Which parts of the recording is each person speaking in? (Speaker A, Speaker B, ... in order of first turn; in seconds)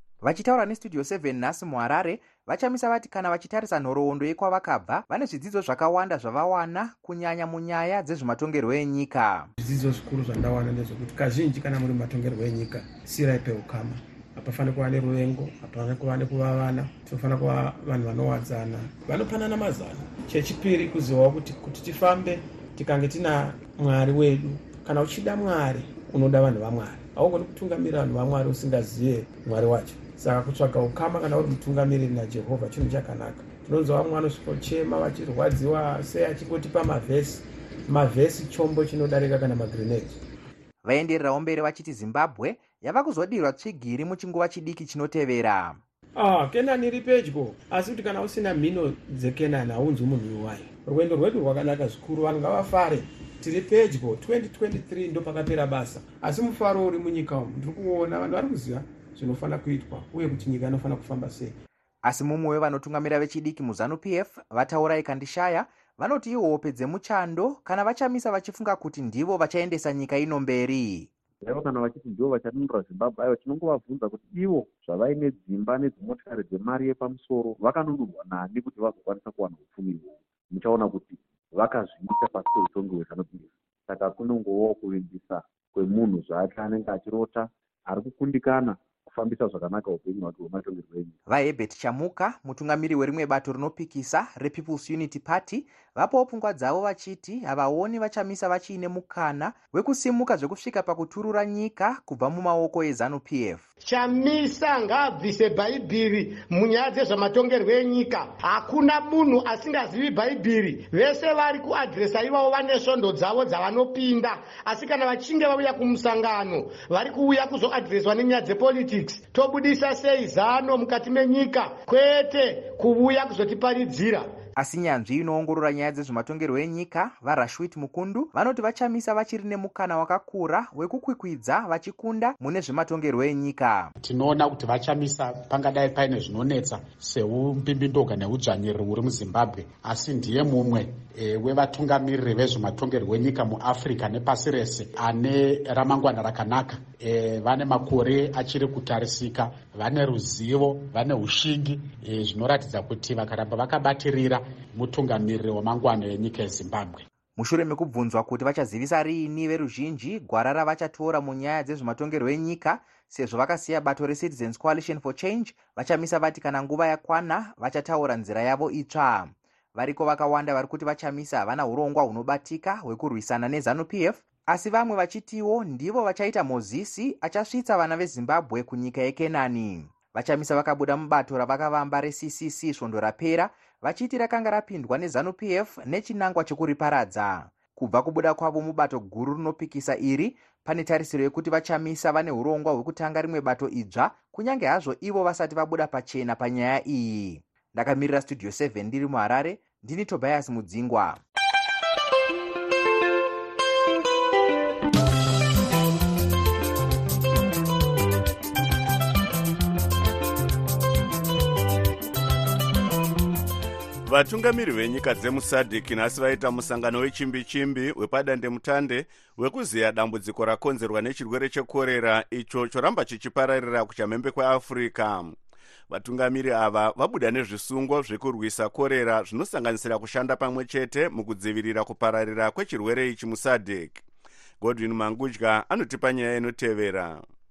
Speaker A: 0.2-9.5, 40.8-45.8, 62.0-71.1, 91.3-103.7, 124.5-133.9, 157.4-201.2
Speaker B: 9.6-40.2, 46.2-61.5
Speaker C: 71.4-91.1
Speaker D: 103.8-124.3
Speaker E: 134.0-157.0
Speaker F: 214.0-225.3, 225.9-234.0, 234.6-237.2